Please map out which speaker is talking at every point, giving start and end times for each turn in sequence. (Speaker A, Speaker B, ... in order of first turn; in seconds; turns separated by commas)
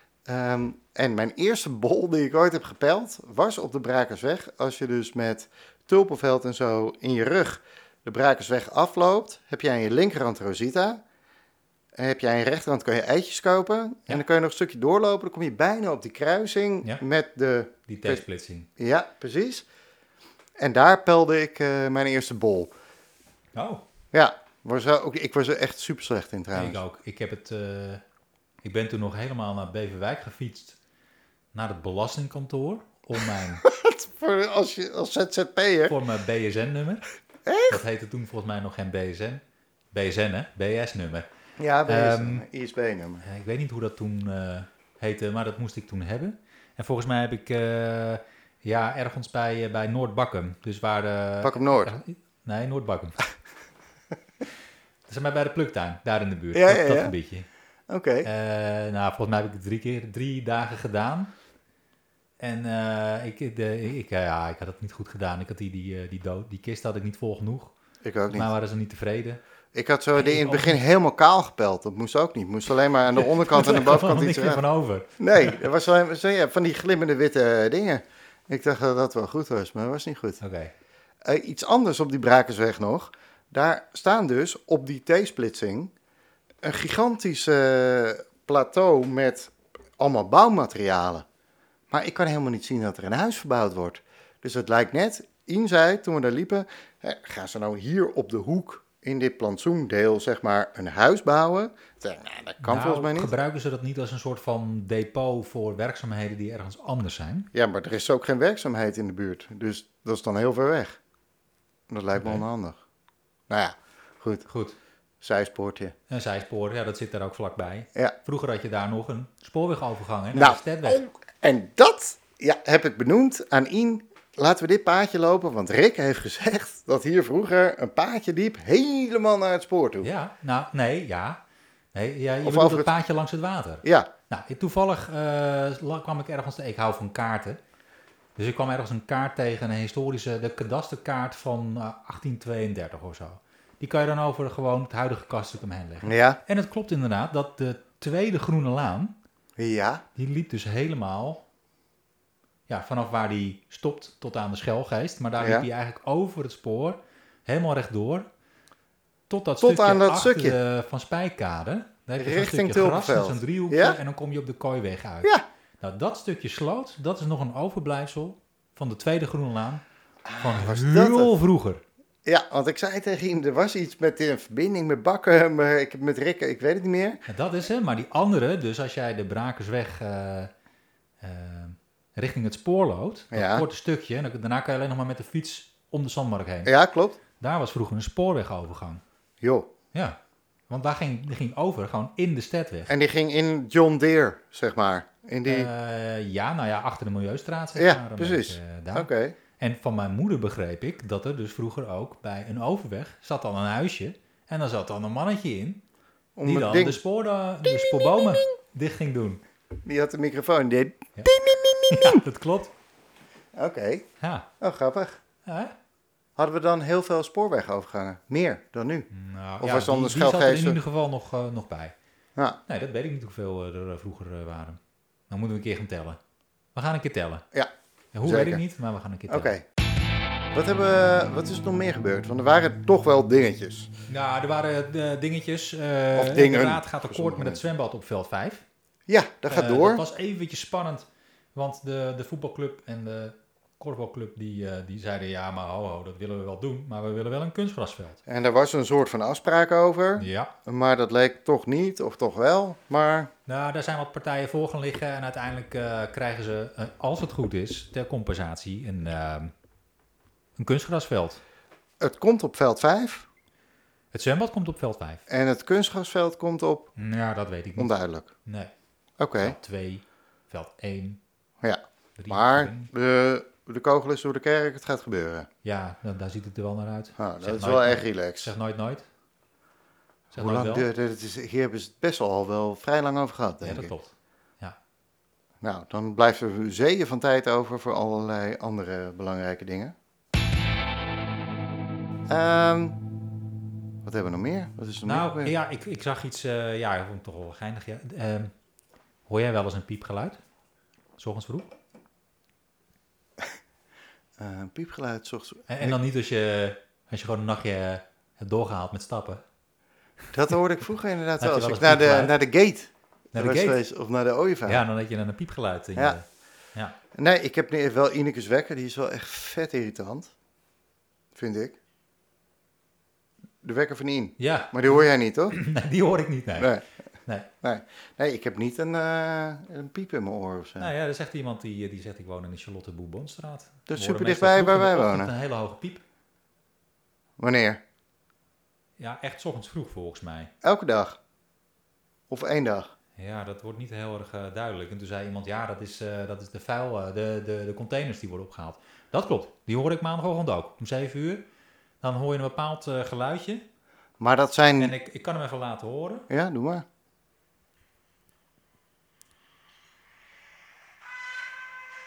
Speaker A: 0.3-11.0, Speaker A: 11.9-18.2, Speaker B: 17.9-18.7, Speaker A: 18.8-19.7, Speaker A: 20.6-22.7, Speaker B: 23.6-23.8, Speaker A: 24.1-26.8, Speaker B: 26.5-28.0, Speaker B: 28.6-30.8, Speaker B: 31.5-33.6, Speaker A: 33.6-36.0, Speaker B: 35.9-37.0, Speaker A: 37.5-37.8, Speaker B: 37.7-39.4, Speaker B: 39.9-41.3, Speaker A: 41.6-43.2, Speaker B: 41.9-42.5, Speaker B: 43.2-53.2, Speaker A: 51.4-51.9, Speaker B: 55.1-57.5, Speaker A: 56.5-57.1, Speaker A: 57.9-58.3, Speaker B: 58.2-61.3, Speaker B: 62.4-67.8, Speaker A: 68.0-68.5, Speaker B: 68.3-69.4, Speaker A: 69.7-74.6, Speaker B: 70.2-70.8, Speaker B: 73.2-75.6, Speaker A: 75.2-80.4, Speaker B: 80.4-80.7, Speaker A: 81.2-85.9, Speaker A: 86.6-91.3, Speaker A: 91.9-103.3, Speaker B: 102.6-107.5, Speaker A: 107.5-111.0, Speaker A: 111.9-112.8, Speaker B: 112.2-112.5, Speaker A: 113.5-114.5, Speaker B: 114.5-114.8, Speaker A: 115.2-116.0, Speaker B: 116.1-121.0, Speaker A: 120.3-130.1, Speaker B: 130.0-131.4, Speaker B: 131.9-137.6, Speaker A: 132.4-132.9, Speaker A: 133.8-134.1, Speaker B: 138.4-149.2, Speaker A: 146.0-146.4, Speaker A: 149.6-150.0, Speaker B: 150.2-151.4, Speaker B: 152.7-158.3, Speaker A: 155.4-155.7, Speaker B: 159.3-169.8, Speaker A: 159.6-160.6, Speaker A: 162.2-164.0, Speaker A: 170.2-171.3, Speaker B: 170.4-171.8, Speaker A: 172.2-177.2, Speaker B: 177.3-180.5, Speaker B: 181.2-186.7, Speaker A: 183.3-183.7, Speaker A: 186.7-187.2, Speaker B: 187.4-189.0, Speaker A: 189.4-189.7, Speaker B: 190.7-192.9, Speaker A: 192.9-195.7, Speaker B: 195.5-205.8, Speaker A: 197.8-199.4, Speaker A: 206.4-207.0, Speaker B: 206.4-209.4, Speaker A: 209.8-212.2, Speaker B: 211.9-212.7, Speaker A: 213.6-214.1, Speaker B: 214.2-214.5, Speaker A: 214.6-215.2, Speaker B: 215.5-215.8, Speaker A: 216.4-219.1, Speaker B: 219.1-221.9, Speaker A: 219.6-220.8, Speaker B: 222.7-224.8, Speaker B: 225.3-226.2, Speaker B: 226.8-227.5, Speaker B: 228.1-229.5, Speaker A: 228.2-228.6, Speaker A: 229.3-229.6, Speaker A: 230.5-233.9, Speaker B: 234.1-238.6, Speaker A: 236.1-237.6, Speaker A: 239.1-240.0, Speaker B: 239.5-248.2, Speaker A: 248.3-253.3, Speaker B: 250.2-250.5, Speaker B: 253.5-259.5, Speaker B: 260.6-261.4, Speaker A: 262.0-263.3, Speaker B: 264.1-265.2, Speaker A: 265.3-266.9, Speaker B: 267.0-267.9, Speaker A: 267.8-268.3, Speaker B: 268.4-268.7, Speaker A: 269.2-269.6, Speaker B: 269.4-271.2, Speaker A: 271.6-275.5, Speaker B: 272.2-272.9, Speaker B: 275.6-279.1, Speaker A: 277.2-278.5, Speaker B: 280.3-280.9, Speaker A: 280.3-283.9, Speaker B: 283.6-284.8, Speaker A: 285.6-289.9, Speaker A: 292.3-293.0, Speaker A: 294.0-295.5, Speaker B: 295.1-298.5, Speaker B: 299.3-300.4, Speaker B: 301.2-301.7, Speaker A: 304.4-306.0, Speaker B: 305.7-309.4, Speaker A: 310.3-314.8, Speaker B: 311.4-312.4, Speaker B: 313.3-313.8, Speaker B: 314.7-316.2, Speaker A: 317.1-320.3, Speaker A: 321.4-321.8, Speaker A: 323.6-325.6, Speaker B: 324.4-326.7, Speaker A: 326.6-326.8, Speaker A: 327.6-330.9, Speaker B: 330.8-336.0, Speaker A: 333.9-335.3, Speaker A: 337.4-337.8, Speaker B: 339.0-340.5, Speaker A: 340.6-341.2, Speaker A: 342.3-342.9, Speaker B: 343.2-351.5, Speaker B: 352.0-353.6, Speaker A: 354.2-354.9, Speaker B: 354.8-356.3, Speaker A: 356.3-356.9